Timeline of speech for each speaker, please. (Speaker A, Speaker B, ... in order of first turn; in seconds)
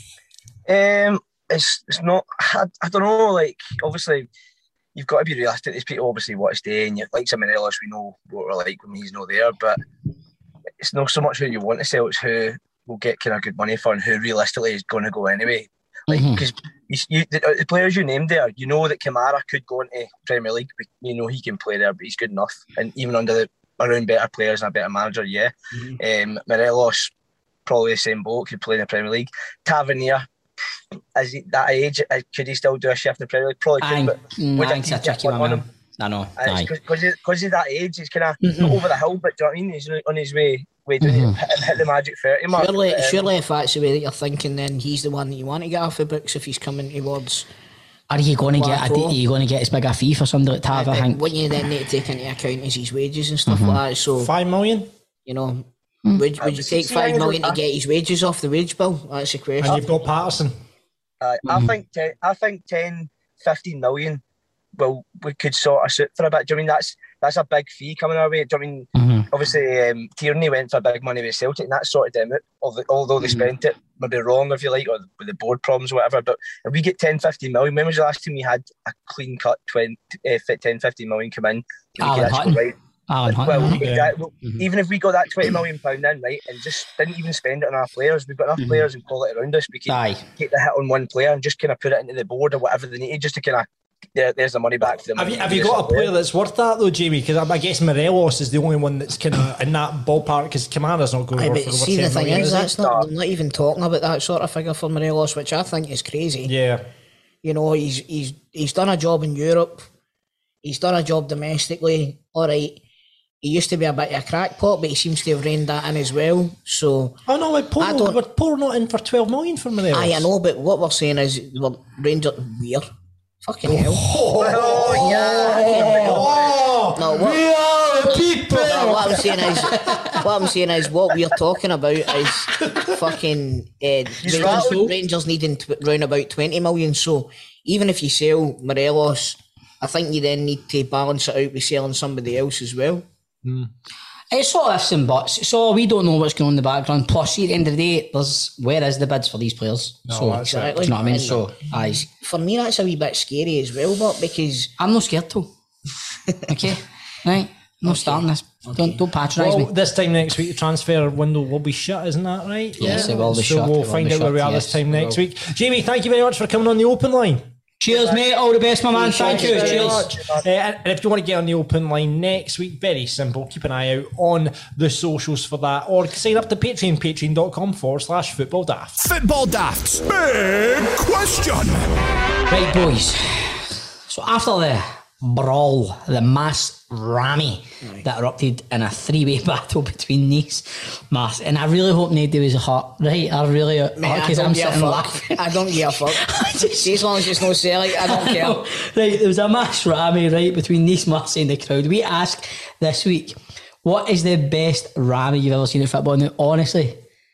Speaker A: 0.7-4.3, 5.0-9.8, 10.8-27.1, 27.6-30.2, 31.1-35.6, 36.4-43.3, 56.4-57.6, 61.2-64.2, 64.8-82.7, 83.3-96.1, 102.6-103.1, 124.3-126.5, 134.2-134.9, 167.9-168.2, 168.9-170.4
Speaker B: 16.1-16.4, 33.8-36.7, 38.4-38.8, 41.0-41.4, 48.1-51.3, 53.5-53.8, 61.4-61.7, 68.9-69.3, 73.2-73.5, 82.0-83.8, 88.6-88.9, 89.9-90.2, 125.3-125.9, 127.2-130.2, 134.4-134.7, 144.3-152.0, 154.8-155.5, 156.5-159.7, 162.8-165.2, 167.8-170.1, 182.5-207.0
Speaker C: 42.5-47.5, 48.5-49.2, 50.7-54.3, 55.2-59.9, 101.4-106.5, 107.4-109.8, 110.6-112.8, 113.4-117.2, 117.8-118.2, 119.9-122.8, 123.4-124.0, 125.3-126.3, 126.9-127.4, 128.6-143.0, 150.5-154.7, 157.8-159.0, 194.0-198.6
Speaker D: 54.1-54.9, 59.6-60.5, 83.8-84.1, 95.2-102.7, 106.5-106.8, 117.3-120.3, 123.7-127.0, 128.1-128.9, 143.4-143.7, 150.1-151.2, 159.4-167.4, 169.2-179.0
Speaker E: 179.0-181.9